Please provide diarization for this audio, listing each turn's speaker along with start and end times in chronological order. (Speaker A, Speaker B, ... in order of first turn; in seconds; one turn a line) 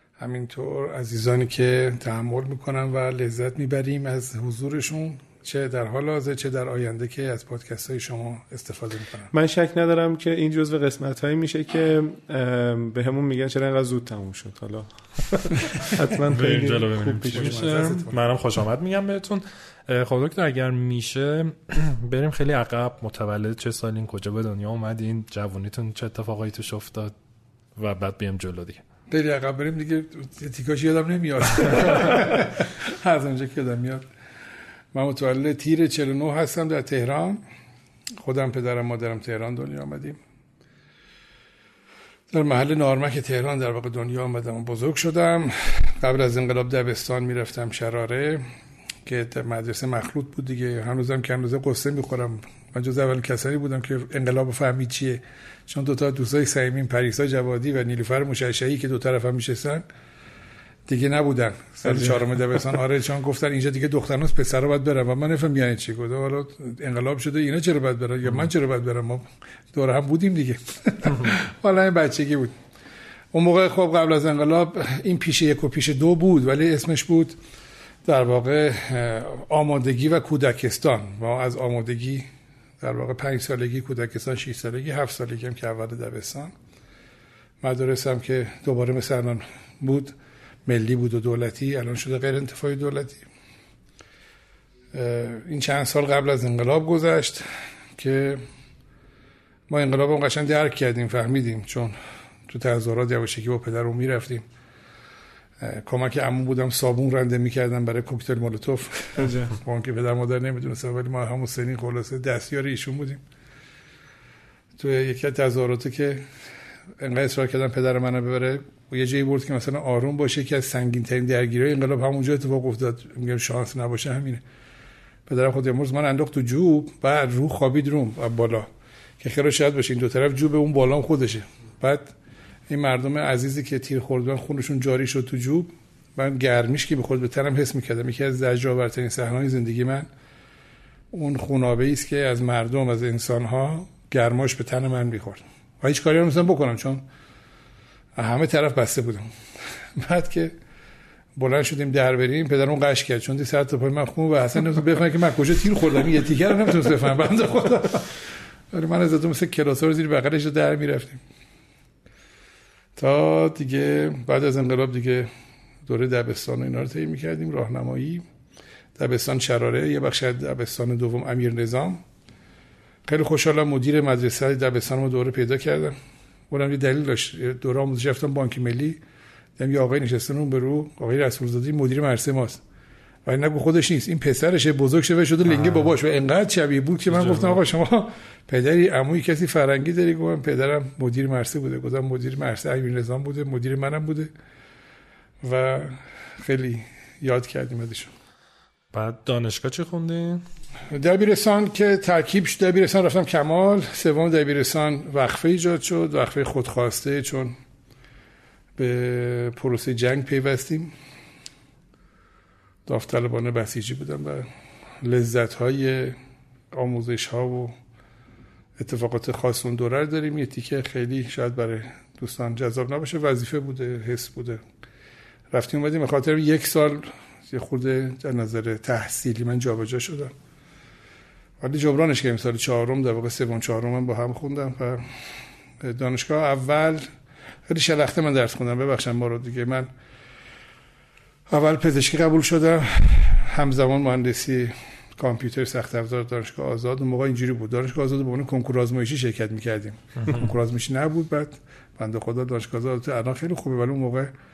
Speaker A: 0.2-9.3
Speaker B: 9.3-17.9
Speaker C: 15.9-27.1
Speaker A: 17.3-18.2
Speaker C: 27.8-28.8
Speaker A: 29.1-34.0
Speaker A: 34.9-37.4
Speaker A: 38.2-40.2
Speaker A: 42.3-48.4
Speaker A: 49.0-59.8
Speaker A: 60.9-72.5
Speaker A: 73.3-77.4
Speaker A: 78.0-82.3
Speaker A: 82.8-86.5
Speaker A: 87.6-90.2
Speaker A: 90.7-93.3
Speaker A: 94.9-98.4
Speaker A: 99.7-102.0
Speaker A: 102.5-104.4
Speaker A: 105.6-113.2
Speaker A: 114.8-116.2
Speaker A: 117.0-124.4
Speaker A: 125.3-128.7
Speaker A: 129.2-132.1
Speaker A: 132.7-140.1
Speaker A: 141.1-147.0
Speaker A: 148.2-149.3
Speaker A: 150.0-150.5
Speaker A: 151.4-158.2
Speaker A: 158.7-161.2
Speaker A: 163.0-165.3
Speaker A: 165.9-168.2
Speaker A: 169.0-172.0
Speaker A: 173.1-176.0
Speaker A: 176.5-179.0
Speaker A: 179.6-182.6
Speaker A: 183.3-194.3
Speaker C: 185.5-185.9
Speaker C: 187.2-187.6
Speaker A: 195.4-198.1
Speaker C: 198.9-200.4
Speaker A: 200.9-207.6
Speaker A: 208.8-210.9
Speaker A: 212.9-214.5
Speaker A: 215.0-216.2
Speaker A: 216.7-217.7
Speaker A: 218.8-224.6
Speaker A: 225.5-230.3
Speaker A: 231.6-235.1
Speaker A: 235.8-237.1
Speaker A: 237.7-239.9
Speaker A: 241.5-254.3